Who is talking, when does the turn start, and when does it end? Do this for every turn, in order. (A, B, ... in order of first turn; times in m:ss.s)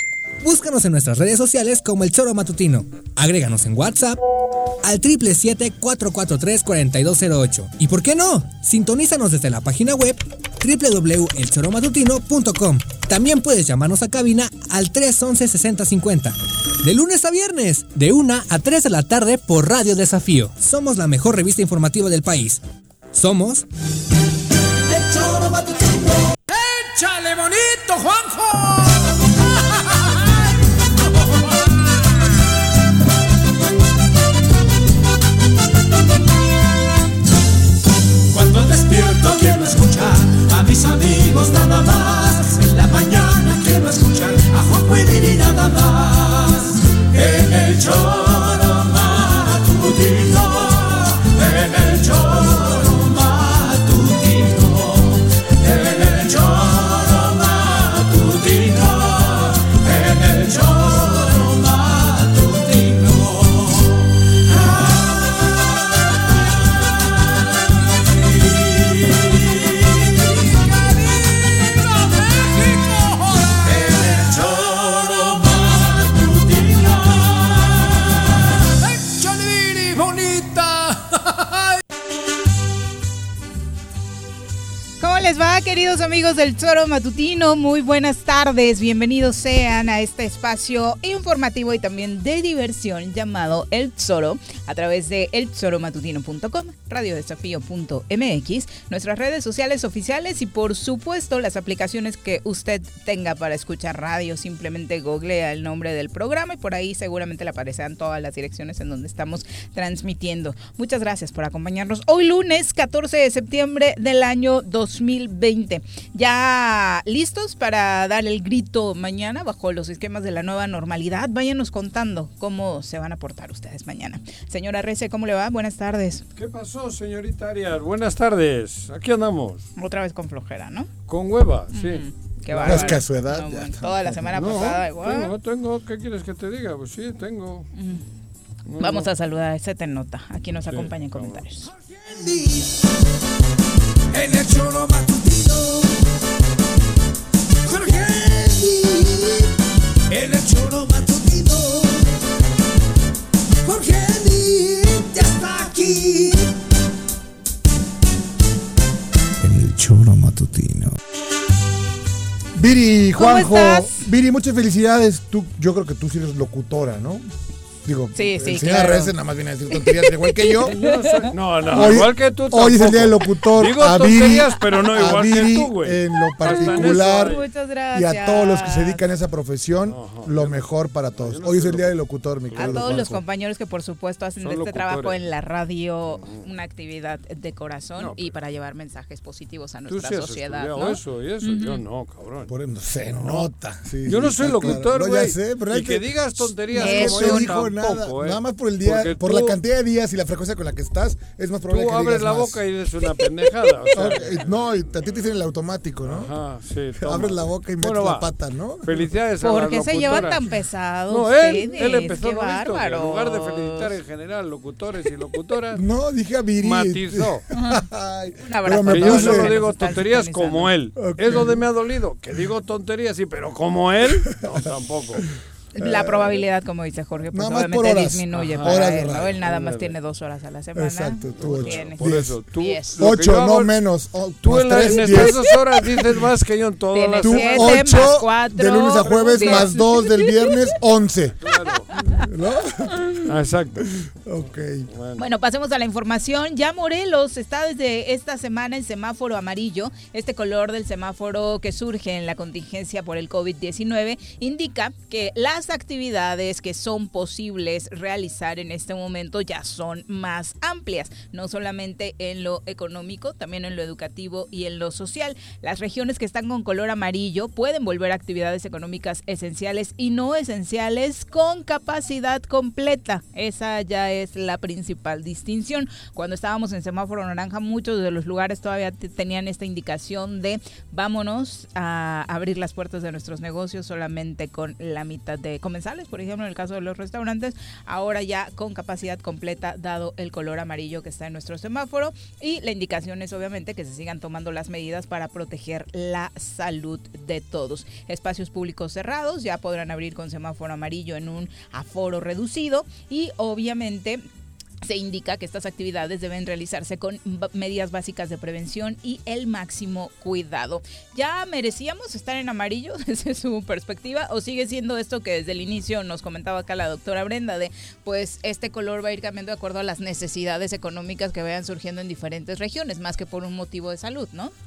0:00.4-0:04.2 A
0:04.8-0:22.6 A
0:23.1-0:23.7 A
0:24.9-0:26.0 B
0:26.5-0:28.9 B
0:38.3-1:03.7 B
1:12.4-1:13.0 B
1:13.6-1:16.8 B
1:19.0-1:21.2 B
1:25.0-2:06.2 C
2:06.4-2:09.6 D
2:09.8-2:10.9 C
2:11.1-2:13.0 D
2:11.7-2:15.3 C
2:12.6-2:14.4 E
2:14.3-2:17.7 D
2:17.8-2:18.0 C
2:18.6-2:19.1 D
2:18.8-2:21.7 C
2:20.7-2:21.4 D
2:24.1-2:25.9 B
2:27.7-2:29.4 B
2:30.1-2:32.0 B
2:33.6-2:36.4 B
2:39.4-2:40.9 E
2:42.5-2:47.2 E
2:43.2-2:44.0 C
2:47.8-2:50.8 E
2:48.2-2:49.1 C
2:49.7-2:51.9 C
2:50.6-2:57.4 D
2:51.7-2:57.4 E
2:56.4-2:59.0 C
2:57.9-3:03.2 E
2:59.9-3:02.0 D
3:02.5-3:03.0 D
3:02.6-3:11.8 C
3:04.4-3:05.2 D
3:06.1-3:06.4 D
3:08.0-3:08.3 D
3:09.9-3:12.5 D
3:12.5-3:22.6 E
3:13.2-3:13.5 D
3:14.0-3:19.6 D
3:16.7-3:17.6 C
3:21.7-3:24.4 D
3:23.9-3:26.3 E
3:26.0-3:28.3 D
3:27.0-3:29.1 E
3:28.8-3:30.5 D
3:29.4-3:33.9 C
3:31.1-3:35.8 D
3:35.7-3:39.6 E
3:36.6-3:37.4 D
3:37.5-3:37.8 C
3:38.4-3:40.7 C
3:38.9-3:45.3 D
3:41.0-3:41.6 E
3:45.7-3:52.0 C
3:45.8-3:46.4 E
3:47.3-3:49.4 E
3:48.3-3:49.9 D
3:50.7-3:52.4 E
3:51.4-3:53.7 D
3:52.6-3:52.9 C
3:53.0-3:55.5 E
3:54.4-3:58.0 D
3:55.0-3:55.6 C
3:56.9-4:00.6 C
3:57.2-4:01.4 E
4:01.4-4:01.9 D
4:01.9-4:02.2 C
4:01.9-4:03.2 E
4:03.2-4:03.9 D
4:03.8-4:04.9 E
4:04.9-4:05.2 D
4:05.2-5:04.2 C
5:04.8-5:24.5 C